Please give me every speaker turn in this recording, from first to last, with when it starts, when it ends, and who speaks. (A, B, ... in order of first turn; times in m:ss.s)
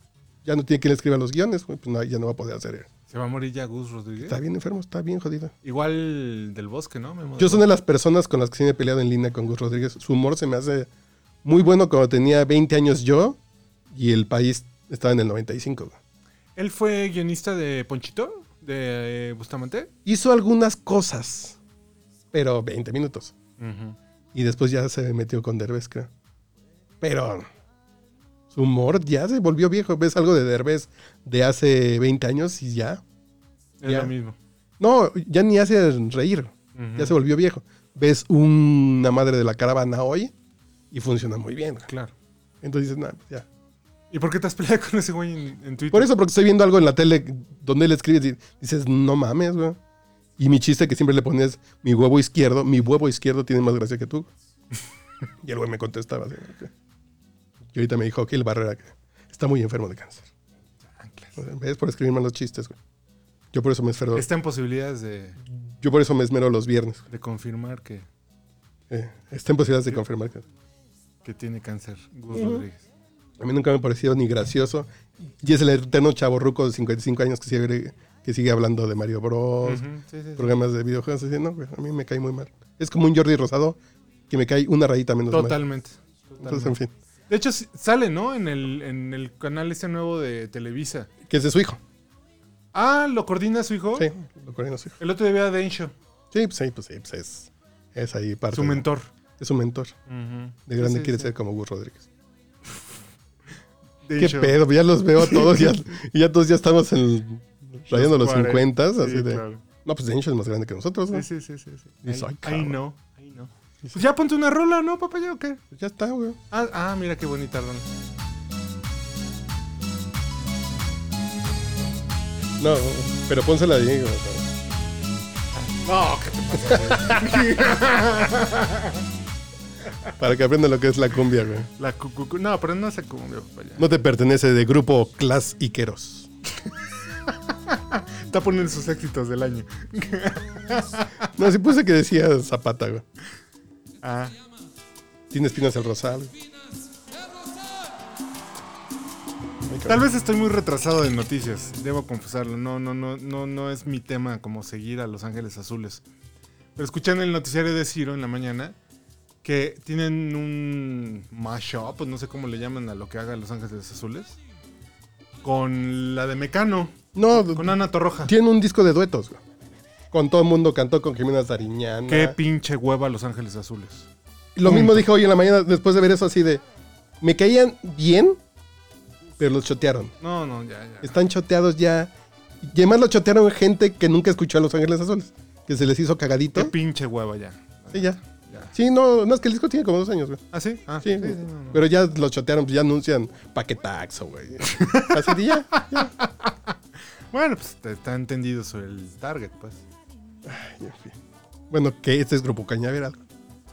0:00.4-0:02.9 A
0:03.1-0:04.4 B
0:04.2-0:05.5 A
0:05.6-0:07.6 B
0:07.4-0:10.9 A
0:11.4-0:13.4 A
0:13.9-0:16.0 A
0:16.6-0:19.9 B
0:20.0-0:21.6 A
0:22.3-0:23.3 A
0:23.6-0:24.0 B
0:24.3-0:26.1 A
0:27.0-0:27.5 A
0:28.5-0:33.0 A
0:33.8-0:34.4 B
0:33.8-0:34.1 A
0:34.8-0:40.3 A
0:36.8-0:37.2 B
0:40.9-0:41.9 A
0:42.6-0:43.4 A
0:44.1-0:46.1 B
0:45.9-0:49.8 A
0:50.4-0:54.3 A
0:55.4-0:56.7 A
0:57.7-1:00.3 A
1:00.8-1:01.4 B
1:01.4-1:02.8 A
1:03.5-1:04.3 A
1:04.1-1:05.4 B
1:05.6-1:07.0 A
1:07.1-1:08.0 B
1:08.9-1:10.4 A
1:11.2-1:12.8 B
1:12.3-1:12.6 A
1:13.4-1:19.8 A
1:19.6-1:20.5 B
1:20.4-1:25.6 A
1:25.3-1:26.8 B
1:26.4-1:26.9 A
1:27.3-1:31.1 B
1:31.2-1:31.8 A
1:32.7-1:34.1 B
1:33.9-1:35.0 A
1:35.0-1:35.9 B
1:36.3-1:38.8 A
1:38.5-1:39.1 B
1:39.4-1:39.9 A
1:40.1-1:41.3 B
1:40.7-1:42.1 A
1:44.0-1:44.6 B
1:44.2-1:51.3 A
1:45.2-1:45.7 B
1:47.9-1:49.6 B
1:51.1-1:55.6 B
1:52.0-1:52.8 A
1:55.7-1:56.4 A
1:56.5-1:57.9 B
2:02.6-2:04.5 A
2:05.6-2:09.0 B
2:10.2-2:11.7 A
2:11.8-2:13.9 B
2:13.8-2:16.3 A
2:17.5-2:21.3 B
2:21.4-2:23.0 A
2:24.0-2:24.4 B
2:25.3-2:26.3 A
2:29.7-2:30.0 A
2:29.8-2:36.0 B
2:36.8-2:38.8 B
2:39.4-2:44.4 B
2:45.4-2:48.3 B
2:47.1-2:49.4 A
2:50.1-2:52.4 A
2:52.1-2:54.1 B
2:54.6-2:56.6 A
2:54.6-2:55.1 B
2:57.2-2:58.4 A
2:59.4-3:00.1 A
3:00.2-3:01.2 B
3:01.0-3:06.7 A
3:06.5-3:08.7 B
3:07.9-3:08.2 A
3:08.7-3:10.4 A
3:10.5-3:11.8 B
3:11.0-3:16.1 A
3:14.6-3:16.5 B
3:17.3-3:19.8 B
3:20.4-3:21.2 A
3:21.7-3:23.2 A